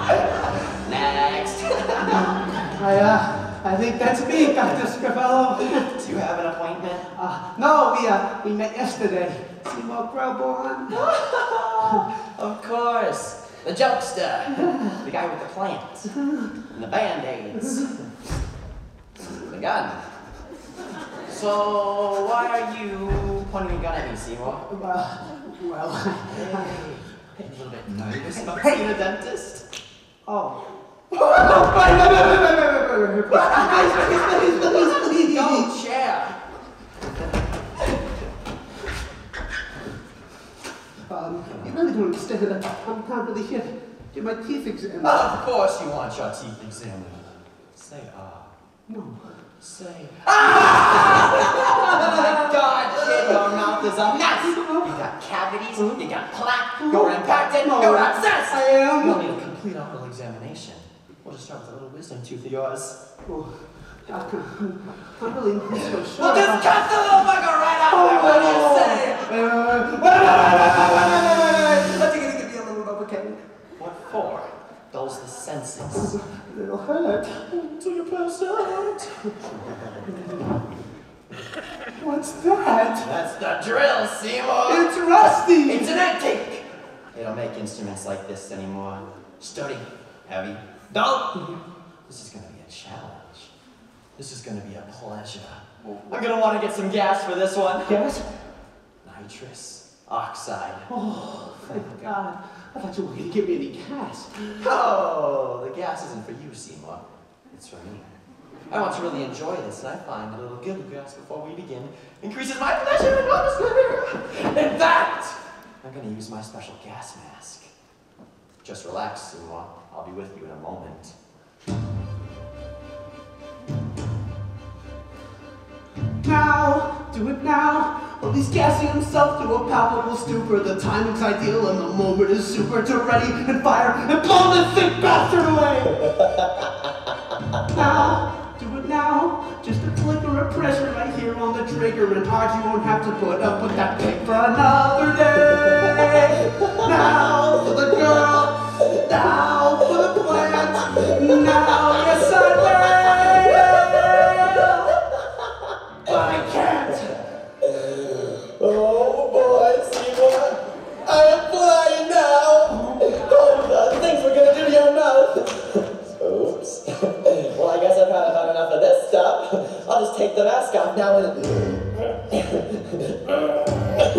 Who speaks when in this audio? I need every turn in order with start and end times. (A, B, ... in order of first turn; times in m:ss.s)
0:00.8-0:02.3 A
0:02.1-0:05.9 B
0:04.4-0:04.8 A
0:05.7-0:07.1 A
0:07.1-0:11.0 B
0:10.9-0:16.1 A
0:16.1-0:16.5 B
0:16.7-0:18.0 A
0:17.6-0:17.9 B
0:19.3-0:20.0 A
0:21.3-0:24.6 A
0:24.7-0:26.8 B
0:26.3-0:29.6 A
0:28.2-0:28.9 B
0:30.3-0:35.7 B
0:31.2-0:31.9 A
0:33.3-0:36.4 A
0:41.1-0:45.4 B
0:45.0-0:48.5 A
0:48.9-0:49.4 B
0:49.6-1:03.0 A
0:50.6-0:55.0 B
0:55.7-0:56.1 B
0:56.8-0:59.5 B
1:03.3-1:06.7 B
1:06.2-1:09.3 A
1:07.9-1:13.4 B
1:13.8-1:16.2 A
1:16.0-1:17.6 B
1:17.6-1:20.0 A
1:20.1-1:20.5 B
1:22.0-1:23.1 B
1:22.9-1:24.9 A
1:24.6-1:25.9 B
1:25.6-1:31.4 A
1:32.1-1:33.5 A
1:34.2-1:38.1 A
1:37.9-1:38.2 B
1:39.0-1:40.9 A
1:40.9-1:44.4 B
1:44.4-1:57.7 A
1:58.6-2:01.1 A
2:06.2-2:16.0 B
2:17.7-2:34.9 B
2:36.1-2:37.2 B
2:38.6-2:40.4 A
2:41.1-2:45.2 A
2:46.2-2:46.8 A
2:47.4-2:51.7 A